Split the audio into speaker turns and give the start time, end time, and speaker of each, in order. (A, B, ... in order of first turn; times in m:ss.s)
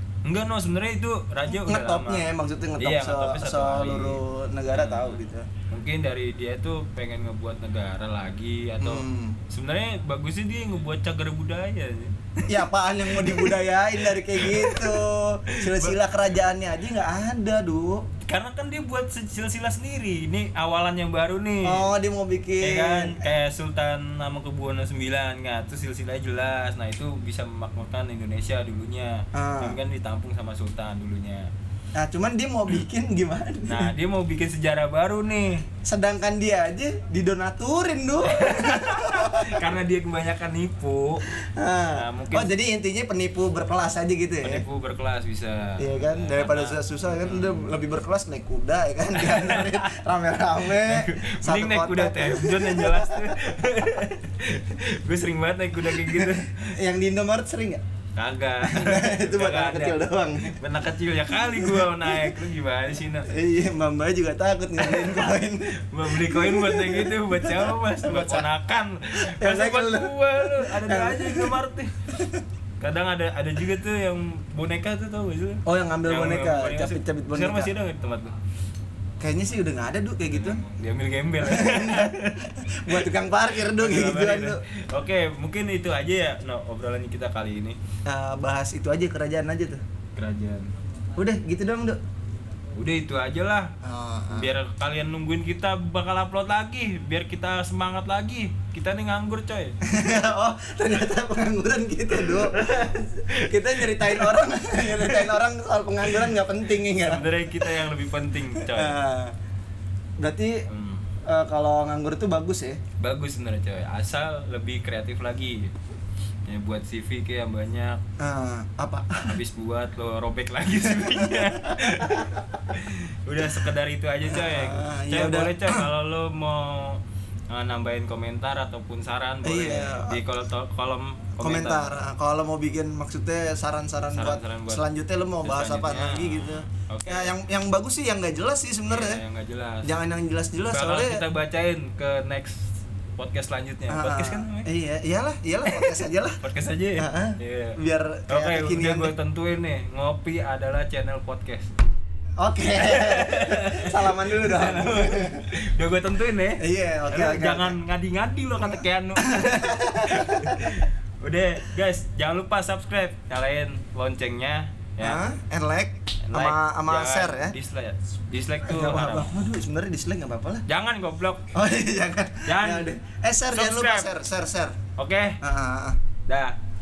0:00.2-0:02.3 A
0:01.5-0:05.5 B
0:02.8-0:04.2 A
0:04.7-0:12.6 A
0:08.8-0:09.4 B
0:12.5-0:18.0 B
0:13.1-0:15.0 A
0:15.5-0:16.0 A
0:18.2-0:21.9 A
0:21.6-0:23.2 B
0:22.6-0:31.5 A
0:29.3-0:29.8 B
0:32.0-0:33.9 B
0:33.7-0:35.7 A
0:35.8-0:39.7 B
0:38.2-0:41.2 A
0:41.3-0:44.6 B
0:41.9-0:42.5 A
0:44.4-0:47.8 A
0:45.8-0:53.4 B
0:49.2-0:50.0 A
0:50.6-0:56.7 A
0:55.8-0:57.8 B
0:58.2-1:03.3 A
0:58.6-1:00.5 B
1:01.5-1:02.3 B
1:03.3-1:08.5 B
1:04.8-1:11.9 A
1:09.2-1:11.6 B
1:12.8-1:18.3 A
1:15.7-1:17.7 B
1:19.2-1:20.6 B
1:20.3-1:23.1 A
1:21.4-1:24.6 B
1:23.7-1:27.8 A
1:28.1-1:29.8 B
1:30.2-1:30.7 A
1:31.2-1:32.0 B
1:32.8-1:33.7 A
1:33.8-1:34.5 B
1:34.3-1:39.8 A
1:39.9-1:47.9 B
1:42.1-1:45.3 A
1:46.1-1:46.4 A
1:46.9-1:49.0 A
1:48.6-1:49.3 B
1:50.2-1:50.6 B
1:50.7-1:51.0 A
1:51.3-1:52.8 B
1:53.0-1:55.7 A
1:56.5-1:58.0 A
1:58.2-1:59.4 B
1:59.3-2:12.0 A
2:00.8-2:02.4 B
2:04.3-2:05.9 B
2:09.4-2:10.2 B
2:11.4-2:19.2 B
2:14.1-2:14.8 A
2:15.4-2:17.4 A
2:18.9-2:19.9 A
2:19.8-2:21.2 B
2:20.7-2:24.7 A
2:23.9-2:26.4 B
2:25.7-2:27.8 A
2:27.0-2:29.1 B
2:28.3-2:31.7 A
2:32.4-2:35.5 B
2:32.8-2:45.2 A
2:36.6-2:37.8 B
2:38.6-2:40.6 B
2:45.0-2:47.6 B
2:46.3-2:49.3 A
2:48.6-2:50.6 B
2:50.7-2:51.5 A
2:51.5-2:54.8 B
2:52.4-2:52.9 A
2:53.5-2:54.1 A
2:55.0-2:55.4 A
2:55.4-2:56.0 B
2:56.3-2:56.6 A